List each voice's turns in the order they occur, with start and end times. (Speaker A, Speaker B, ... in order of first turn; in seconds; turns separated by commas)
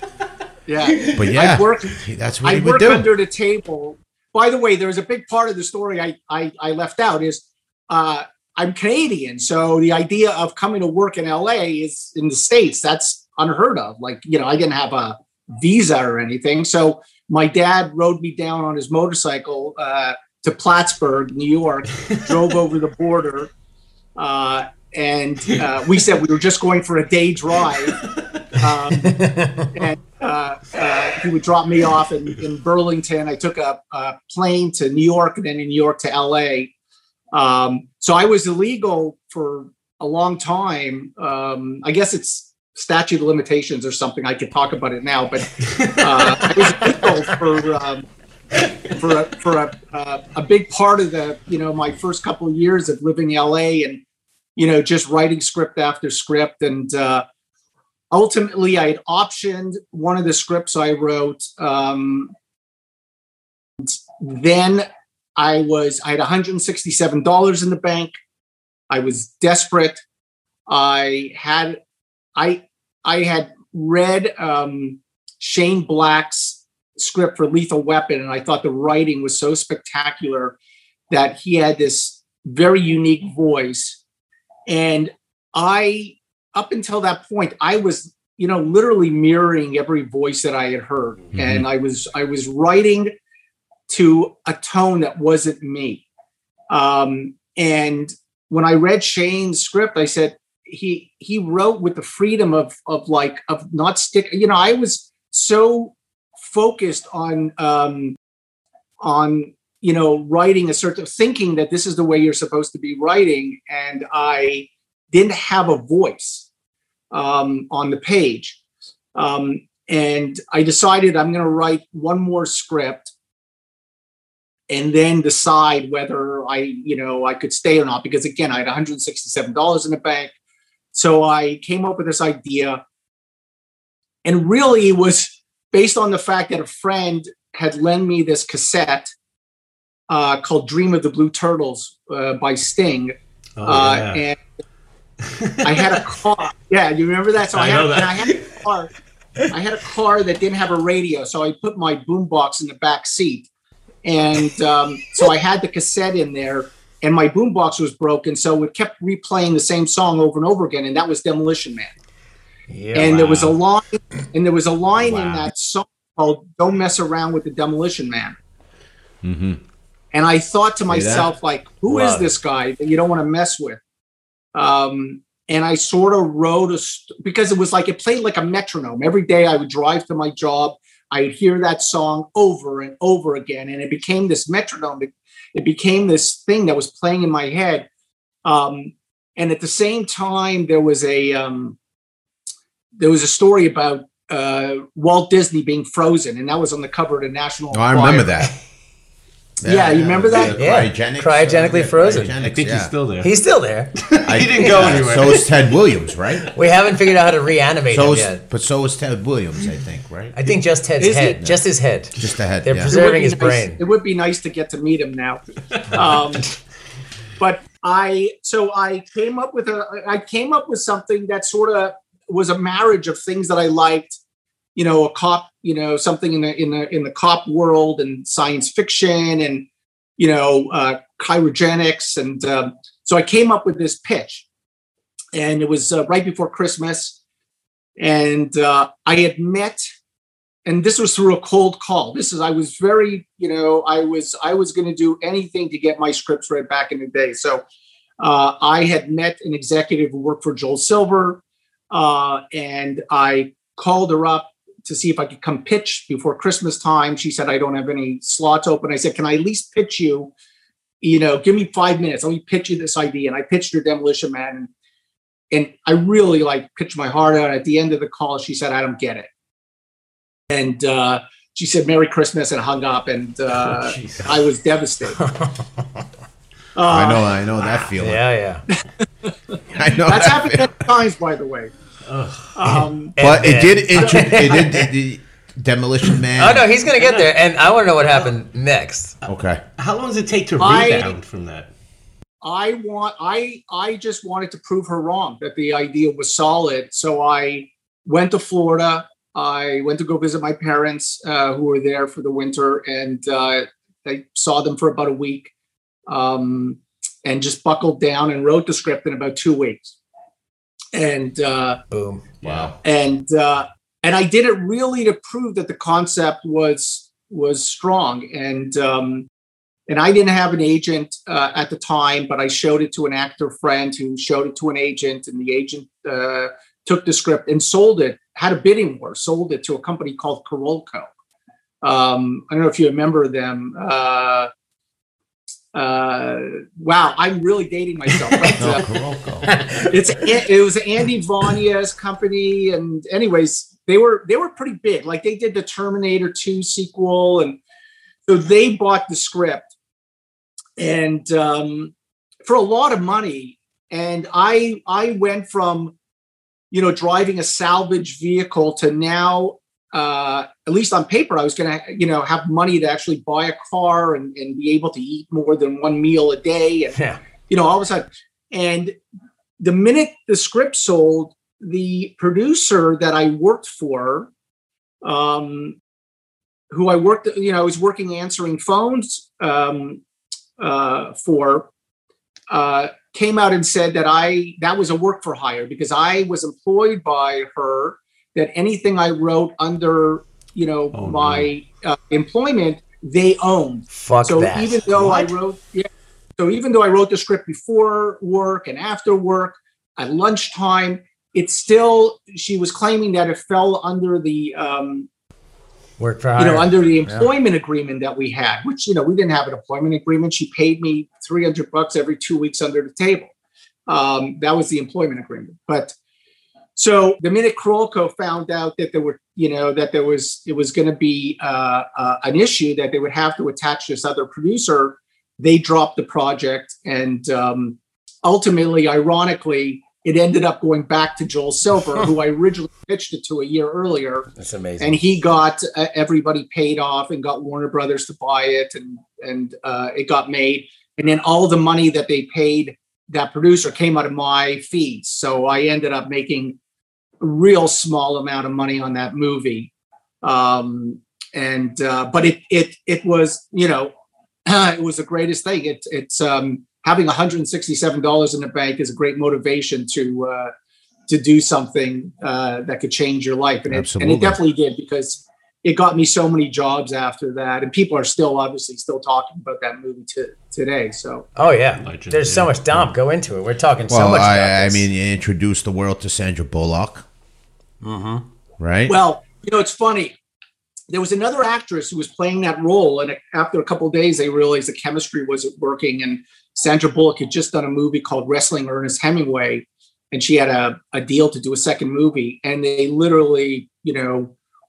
Speaker A: 0.7-23.5, Speaker B: 0.8-1.3, Speaker C: 1.1-3.1, Speaker A: 24.2-28.0, Speaker B: 27.9-28.4, Speaker A: 28.6-29.2, Speaker D: 29.0-29.7, Speaker A: 29.7-36.7, Speaker A: 37.3-48.0, Speaker B: 45.7-47.1, Speaker A: 48.9-54.0, Speaker A: 54.5-57.2, Speaker A: 58.1-62.3, Speaker A: 63.8-64.8, Speaker A: 65.4-68.1, Speaker A: 68.9-70.0, Speaker A: 70.7-71.8, Speaker A: 72.3-80.5, Speaker A: 81.1-84.0, Speaker A: 84.7-93.1, Speaker C: 91.3-91.7, Speaker A: 93.9-96.0, Speaker A: 96.7-108.2, Speaker A: 109.0-116.5, Speaker A: 117.1-118.6, Speaker A: 119.1-123.1, Speaker A: 124.7-130.3, Speaker A: 130.9-132.8, Speaker A: 134.2-139.1, Speaker A: 140.1-144.4, Speaker B: 143.6-144.2, Speaker B: 145.2-146.0, Speaker A: 145.6-148.9, Speaker B: 147.5-148.6, Speaker A: 149.5-153.5, Speaker A: 154.0-161.9, Speaker D: 162.7-163.6, Speaker A: 162.9-168.3, Speaker C: 165.0-165.4, Speaker C: 169.2-169.6, Speaker A: 170.1-173.8, Speaker C: 170.9-171.3, Speaker D: 171.9-172.3, Speaker A: 174.5-187.9, Speaker A: 188.4-191.8, Speaker A: 193.0-198.3, Speaker C: 197.7-198.5, Speaker C: 199.6-202.9, Speaker A: 199.6-200.6, Speaker B: 200.3-200.6, Speaker D: 200.5-202.3, Speaker B: 202.4-203.3, Speaker D: 203.2-205.4, Speaker B: 204.0-205.6, Speaker C: 204.2-206.5, Speaker D: 206.5-208.4, Speaker C: 207.9-210.4, Speaker D: 210.4-213.8, Speaker A: 211.0-211.4, Speaker C: 212.2-212.9, Speaker A: 212.9-216.5, Speaker A: 217.4-224.2, Speaker A: 224.8-229.6, Speaker A: 230.2-234.4, Speaker A: 235.3-237.2, Speaker A: 238.0-239.8, Speaker A: 240.7-247.6, Speaker A: 248.2-260.3, Speaker A: 261.0-264.7, Speaker A: 265.5-269.3, Speaker A: 270.5-275.2, Speaker B: 273.6-274.3, Speaker D: 275.3-275.6, Speaker A: 276.7-277.3, Speaker C: 276.8-278.2, Speaker D: 278.0-278.6, Speaker C: 279.7-280.7, Speaker A: 280.1-281.7, Speaker B: 282.1-282.5, Speaker A: 282.5-283.1, Speaker D: 282.6-284.9, Speaker C: 283.2-286.7, Speaker D: 286.3-289.1, Speaker B: 287.0-287.3, Speaker C: 289.2-289.6, Speaker B: 289.8-291.7, Speaker A: 290.6-291.1, Speaker A: 292.4-305.5, Speaker A: 306.1-309.9, Speaker A: 310.9-311.8, Speaker D: 311.9-312.2, Speaker B: 312.4-312.8, Speaker A: 312.8-319.3, Speaker A: 319.9-331.1, Speaker A: 331.8-334.5, Speaker A: 335.7-338.8, Speaker C: 338.6-339.6, Speaker D: 339.5-339.8, Speaker A: 339.9-347.6, Speaker A: 348.3-349.7, Speaker A: 350.8-351.9, Speaker A: 352.4-355.9, Speaker A: 356.7-368.9, Speaker A: 369.6-374.3, Speaker A: 375.0-375.8, Speaker A: 376.7-380.0, Speaker A: 380.6-381.7, Speaker A: 382.5-395.9, Speaker B: 390.9-391.5, Speaker D: 393.9-395.3, Speaker A: 396.4-405.1, Speaker D: 406.0-407.3, Speaker A: 406.4-413.3, Speaker A: 413.9-415.9, Speaker A: 416.8-434.3, Speaker D: 434.4-435.0, Speaker A: 434.8-446.6, Speaker A: 447.2-449.7, Speaker A: 450.2-453.9, Speaker A: 454.4-460.5, Speaker A: 461.1-471.2, Speaker C: 463.7-464.4, Speaker D: 471.4-474.8, Speaker B: 471.8-472.9, Speaker C: 473.9-477.1, Speaker D: 477.8-478.2, Speaker C: 478.6-478.9, Speaker A: 478.9-480.1, Speaker A: 480.9-494.3